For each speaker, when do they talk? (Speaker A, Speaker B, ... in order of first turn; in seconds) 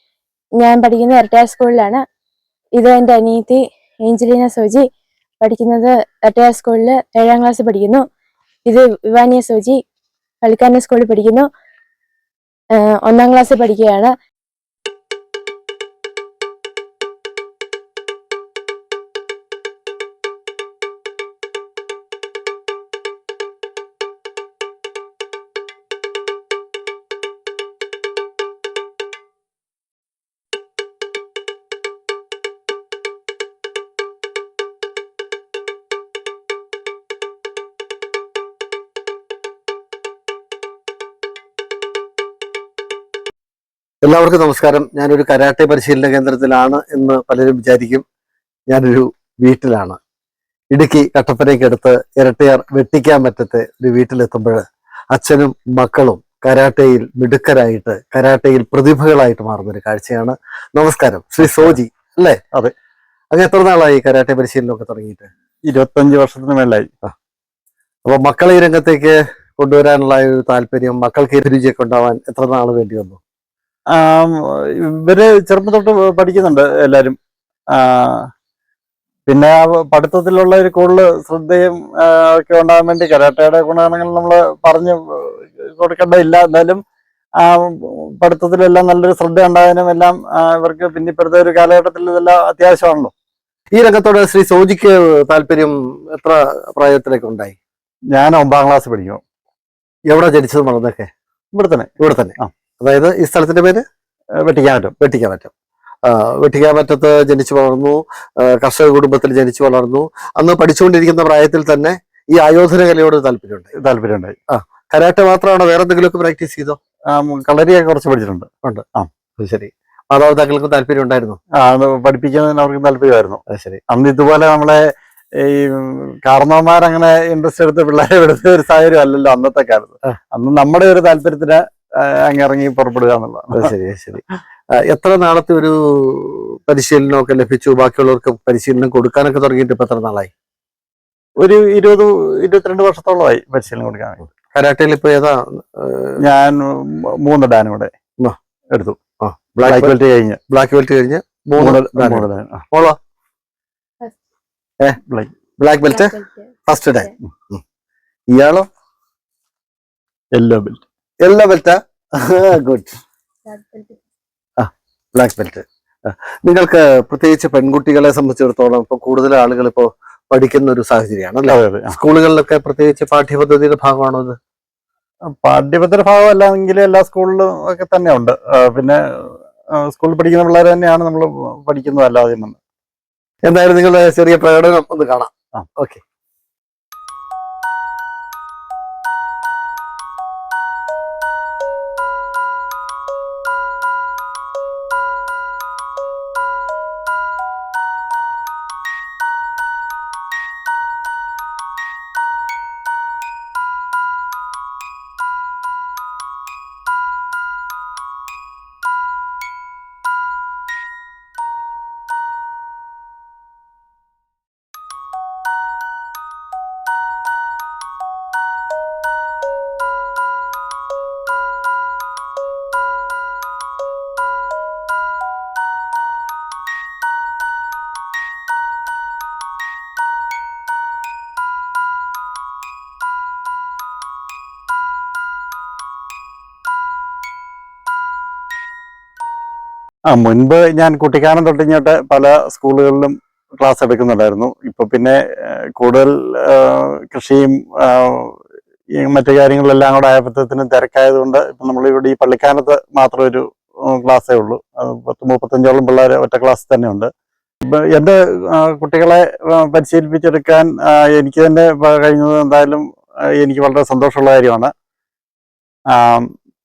Speaker A: 0.6-2.0, 2.8-4.8, 5.4-8.0, 8.7-9.8, 10.4-11.4, 12.8-14.1, 156.1-156.4, 163.5-164.0
Speaker B: 44.0-48.0, 48.7-50.0, 50.7-62.4, 63.3-65.3, 68.0-73.2, 93.7-97.6, 100.1-101.1, 102.0-103.8, 105.0-105.5, 106.0-113.7, 114.5-116.8, 119.4-121.4, 123.5-123.8, 133.5-134.2, 134.7-140.3, 144.5-146.2, 149.2-149.9, 150.5-153.0, 155.6-157.6, 158.3-158.7, 161.2-162.9, 164.6-174.4, 183.4-186.0
Speaker C: 61.4-61.8, 65.7-66.9, 73.9-74.3, 74.8-77.2, 77.7-78.3, 79.3-86.8, 87.4-93.1, 98.1-99.2, 101.5-102.5, 104.4-104.9, 113.8-114.3, 117.1-119.1, 121.6-124.8, 125.4-133.7, 141.4-144.3, 146.2-147.9, 148.7-149.0, 149.6-150.4, 151.6-152.6, 155.1-155.3, 160.3-160.8, 171.5-172.0, 175.4-179.0, 179.8-182.6, 240.1-245.2, 245.8-248.3, 249.0-257.1, 257.6-262.8, 263.4-264.7, 265.9-266.3